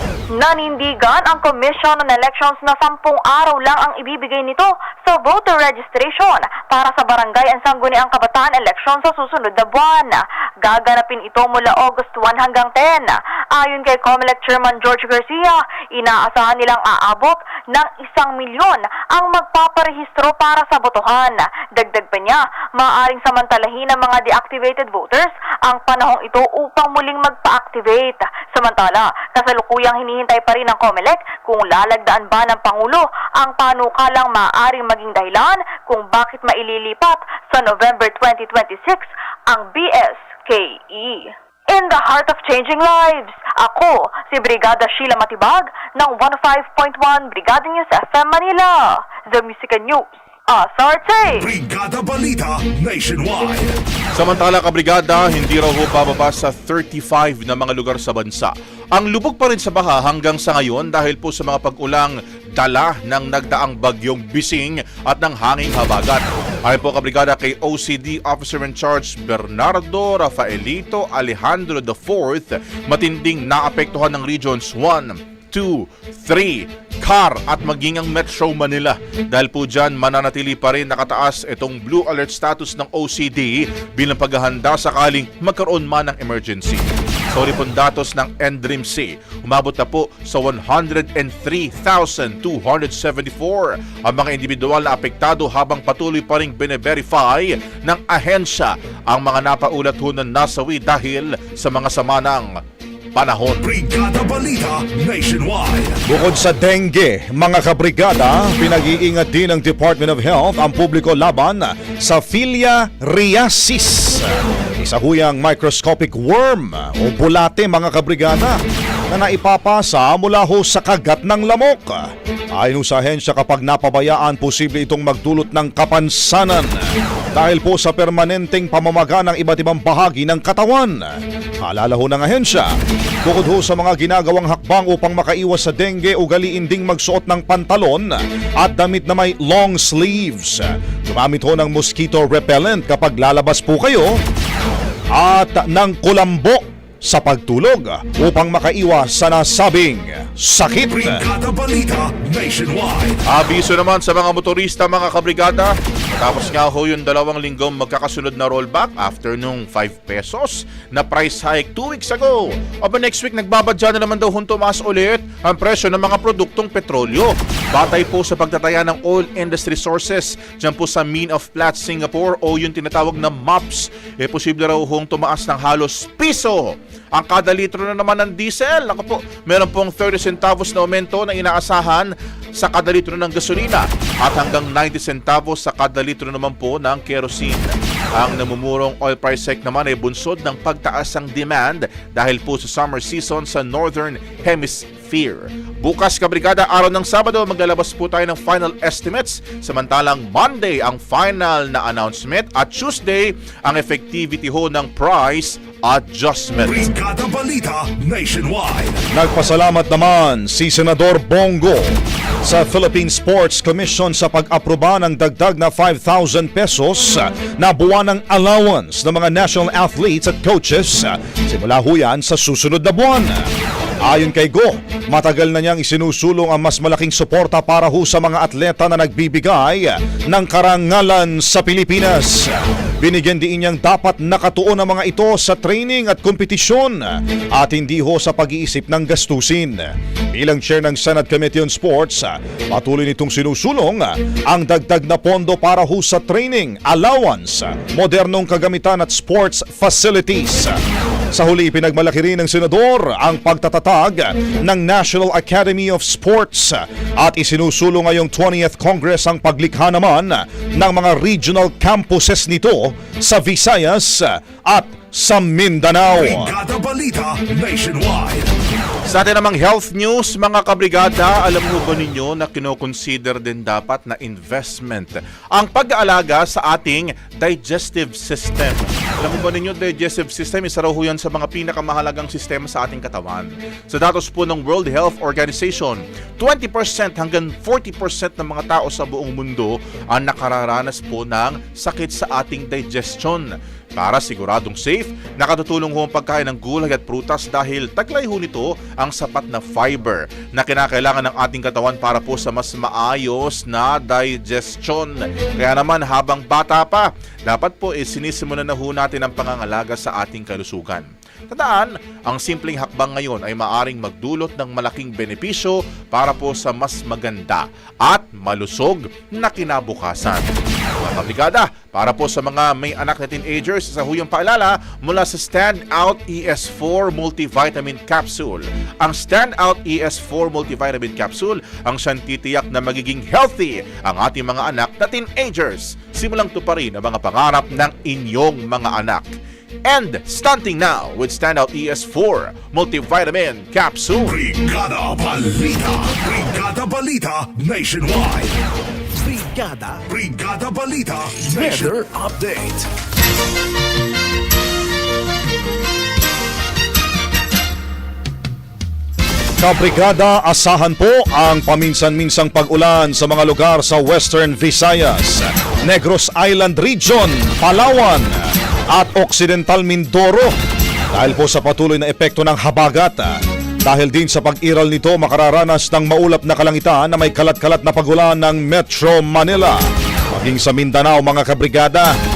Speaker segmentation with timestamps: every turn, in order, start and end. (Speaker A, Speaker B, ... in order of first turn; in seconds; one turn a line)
Speaker A: 0.4-51.5
Speaker B: 51.4-53.8
Speaker C: 54.1-102.6
Speaker C: 103.1-103.7
Speaker B: 103.6-106.0
Speaker D: 106.1-126.7
Speaker D: 127.3-131.1
Speaker D: 131.6-132.7
Speaker D: 133.2-144.1
Speaker D: 145.2-151.2
Speaker B: 150.9-153.2
Speaker C: 153.3-206.9
Speaker B: 206.7-209.0
Speaker D: 209.1-223.4
Speaker D: 224.1-250.8
Speaker D: 251.3-266.5
Speaker B: 266.2-268.5
Speaker C: 269.1-344.4
Speaker B: 344.2-348.6
Speaker E: 349.1-350.0
Speaker B: 350.1-352.0
Speaker E: 351.4-352.9
Speaker D: 359.6-368.3
Speaker D: 368.9-370.5
Speaker D: 371.1-373.3
Speaker D: 373.9-379.8
Speaker D: 380.3-382.1